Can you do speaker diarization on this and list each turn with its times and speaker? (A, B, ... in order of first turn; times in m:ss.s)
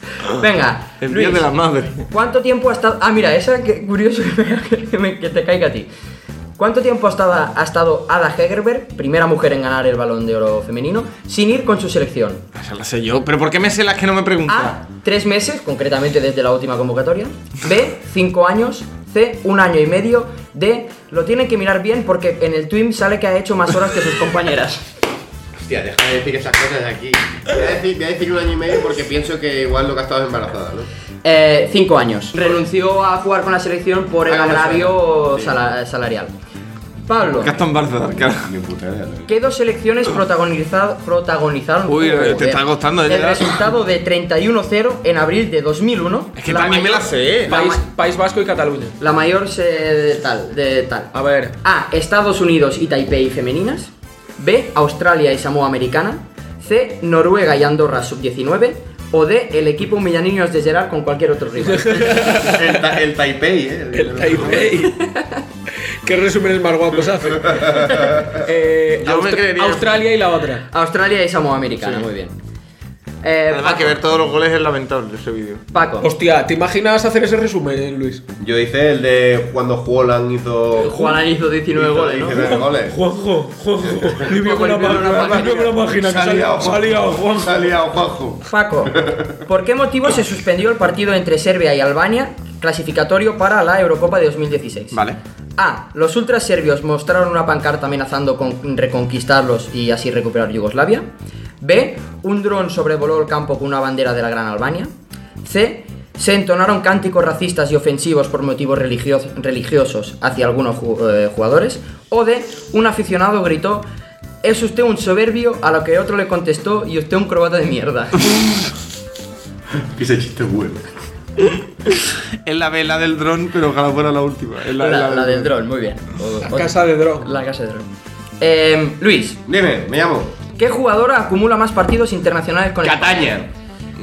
0:00.3-0:01.5 A
0:01.0-0:02.1 B
0:02.1-0:05.9 A
0:06.6-0:12.4 A
0:12.6-0:14.8 B
0:14.5-0:24.9 A
0:25.6-0:30.9 C
0:31.2-0:36.3 A
0:34.3-0:35.6 C
0:37.1-0:37.6 A
0:37.4-0:38.5 B
0:38.4-0:39.3 C
0:39.3-0:47.8 A
0:41.9-0:43.7 B
0:46.4-0:47.5 B
0:46.5-0:49.0 D
0:49.0-1:02.4 A
0:51.1-0:51.6 D
1:01.6-1:02.8 D
1:02.2-1:04.8 C
1:03.9-1:05.0 D
1:04.8-1:05.4 A
1:05.9-1:10.7 D
1:07.4-1:08.4 C
1:09.0-1:10.0 B
1:10.7-1:12.4 A
1:13.2-1:14.0 A
1:13.5-1:15.6 B
1:15.7-1:16.1 A
1:16.0-1:18.2 D
1:18.4-1:21.2 C
1:20.8-1:22.4 A
1:21.7-1:23.0 C
1:22.3-1:27.7 D
1:24.3-1:25.7 A
1:25.0-1:29.4 C
1:28.5-1:35.0 A
1:35.6-1:41.1 A
1:41.6-1:53.8 A
1:54.4-1:58.2 A
1:59.8-2:00.9 C
2:02.1-2:05.5 B
2:04.8-2:07.9 A
2:06.4-2:07.3 D
2:08.4-2:09.4 A
2:09.5-2:10.3 C
2:10.6-2:13.4 A
2:12.8-2:13.5 C